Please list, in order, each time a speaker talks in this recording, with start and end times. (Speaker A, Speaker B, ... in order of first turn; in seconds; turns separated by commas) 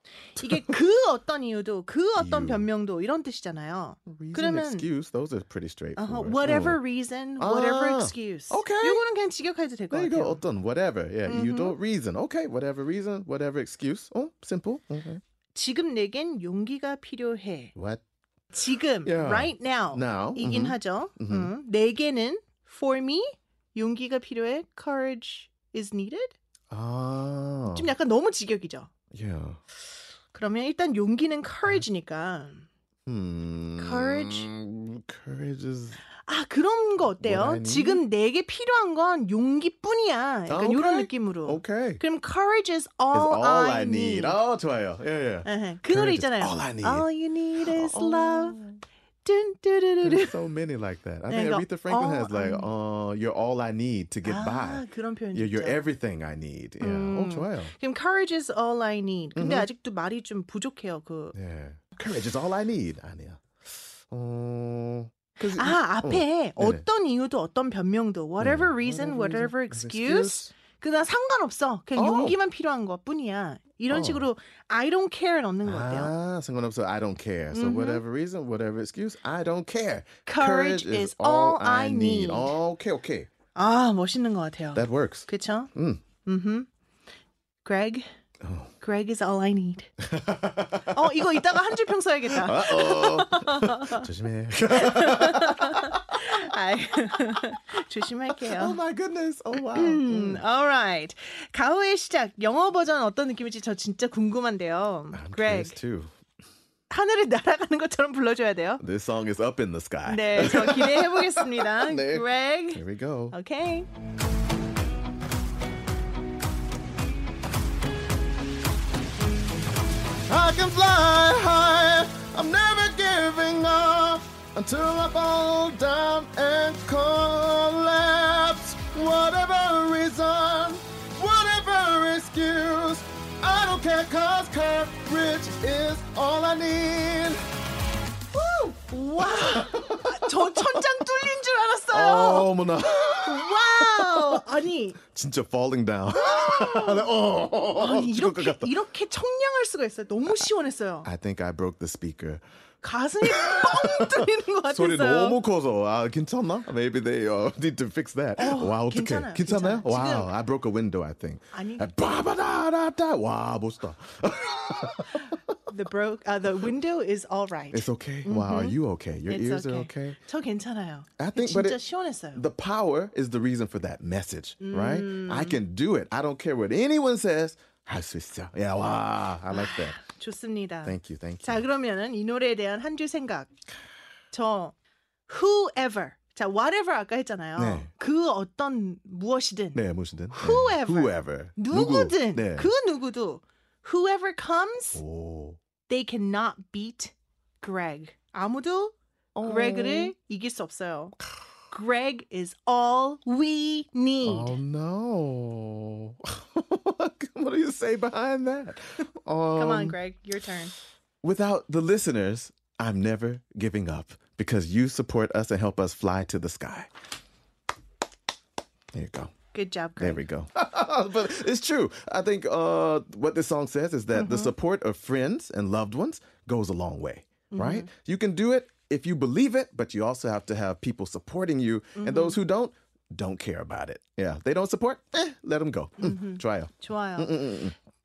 Speaker A: 0.4-0.7, Speaker B: 0.4-4.9, Speaker A: 2.2-2.7, Speaker A: 4.1-6.8, Speaker B: 6.0-10.4, Speaker A: 7.4-9.0, Speaker A: 9.9-15.2, Speaker B: 11.3-11.8, Speaker B: 15.6-17.7, Speaker A: 17.8-18.0, Speaker B: 18.5-26.4, Speaker A: 19.1-21.5, Speaker A: 26.7-27.9, Speaker B: 27.7-28.9, Speaker A: 29.1-29.6, Speaker B: 30.3-32.7, Speaker A: 33.1-36.0, Speaker B: 33.8-34.5, Speaker B: 36.3-44.4, Speaker A: 37.2-38.0, Speaker A: 40.5-42.0, Speaker A: 43.1-47.1, Speaker B: 45.5-48.6, Speaker A: 47.6-48.8, Speaker B: 49.2-50.4, Speaker A: 50.0-54.8, Speaker B: 51.3-52.7, Speaker B: 54.2-55.9, Speaker A: 55.3-57.7, Speaker B: 56.8-61.4, Speaker A: 59.4-59.7, Speaker A: 61.4-66.8, Speaker B: 65.5-76.1, Speaker A: 68.4-70.5, Speaker A: 72.0-72.4, Speaker A: 73.9-74.3, Speaker A: 75.7-83.3, Speaker B: 77.5-78.0, Speaker B: 80.3-82.5, Speaker B: 83.5-85.7, Speaker A: 84.8-86.0, Speaker B: 86.2-86.7, Speaker B: 87.6-88.0, Speaker A: 88.4-88.7, Speaker B: 88.8-89.9, Speaker A: 90.0-91.3, Speaker B: 90.9-94.1, Speaker A: 92.3-96.2, Speaker B: 94.7-98.8, Speaker A: 98.4-100.4, Speaker B: 99.6-105.8, Speaker A: 105.1-106.1, Speaker B: 106.9-108.8, Speaker A: 108.8-113.3, Speaker B: 110.1-113.9, Speaker A: 120.3-137.4, Speaker B: 138.3-145.0, Speaker A: 139.2-140.8, Speaker A: 141.9-144.4, Speaker A: 145.1-148.7, Speaker B: 146.1-147.1, Speaker B: 147.7-151.1, Speaker A: 151.1-152.4, Speaker B: 152.8-155.4, Speaker A: 153.2-165.4, Speaker B: 158.4-160.3, Speaker B: 161.5-161.9, Speaker B: 165.7-172.4, Speaker A: 167.7-170.2, Speaker A: 171.2-171.8, Speaker A: 172.3-180.0, Speaker B: 174.6-175.6, Speaker B: 179.5-183.5, Speaker A: 180.8-181.7, Speaker B: 184.3-184.8, Speaker B: 185.3-195.0, Speaker A: 187.6-187.9, Speaker A: 189.8-192.7, Speaker A: 194.9-195.6, Speaker B: 195.9-201.2, Speaker A: 199.3-200.1, Speaker B: 201.7-204.6, Speaker A: 204.2-210.0, Speaker B: 209.5-210.7, Speaker A: 211.2-216.9, Speaker A: 218.9-219.3, Speaker B: 219.5-220.2, Speaker A: 220.0-237.8, Speaker B: 224.1-224.5, Speaker B: 227.5-227.9, Speaker B: 232.0-232.4, Speaker B: 236.0-237.4